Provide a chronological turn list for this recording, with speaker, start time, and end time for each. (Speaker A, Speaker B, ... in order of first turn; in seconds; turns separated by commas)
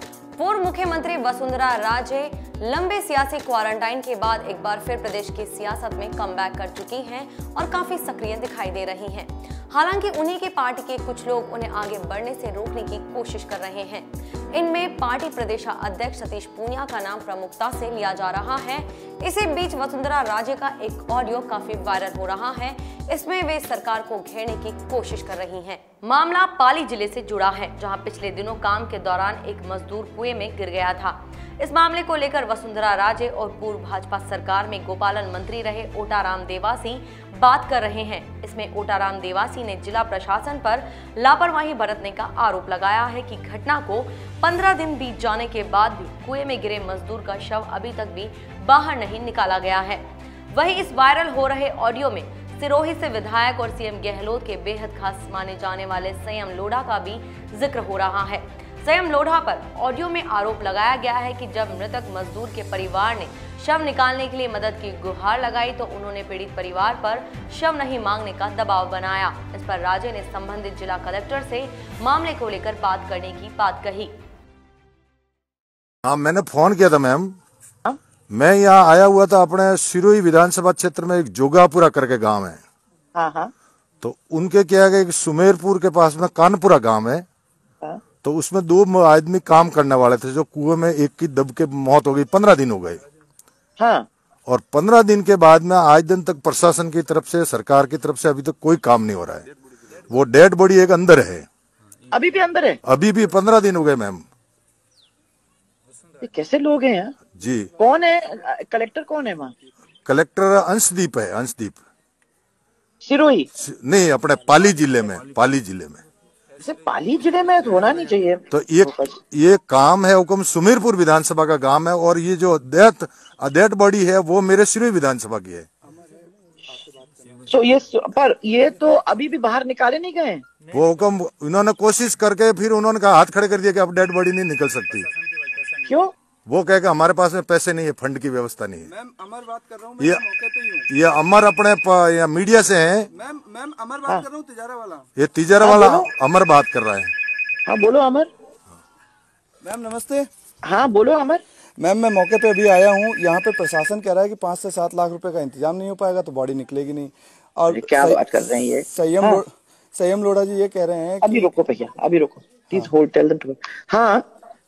Speaker A: 0.4-74.1, Speaker B: 76.0-77.4, Speaker B: 78.3-82.6, Speaker C: 83.2-83.5, Speaker B: 84.0-87.3, Speaker B: 88.2-93.0, Speaker C: 93.8-94.1, Speaker B: 94.5-99.5, Speaker B: 100.1-101.5, Speaker C: 102.1-102.8, Speaker B: 102.8-104.2, Speaker C: 106.2-107.2, Speaker B: 107.3-107.7, Speaker C: 107.8-109.5, Speaker B: 110.1-111.8, Speaker C: 113.0-113.5, Speaker B: 113.6-116.0, Speaker C: 116.6-119.2, Speaker B: 118.5-125.7, Speaker D: 126.8-127.4, Speaker C: 127.5-130.4, Speaker B: 130.7-135.1, Speaker C: 135.8-136.1, Speaker B: 136.5-138.9, Speaker D: 138.9-140.9, Speaker B: 140.9-143.1, Speaker D: 143.2-145.1, Speaker B: 145.2-147.1, Speaker C: 145.6-146.1, Speaker C: 147.7-148.3, Speaker D: 149.6-150.3, Speaker C: 150.6-151.4, Speaker D: 151.8-158.2, Speaker C: 157.7-159.4, Speaker D: 158.9-161.5, Speaker C: 161.2-164.2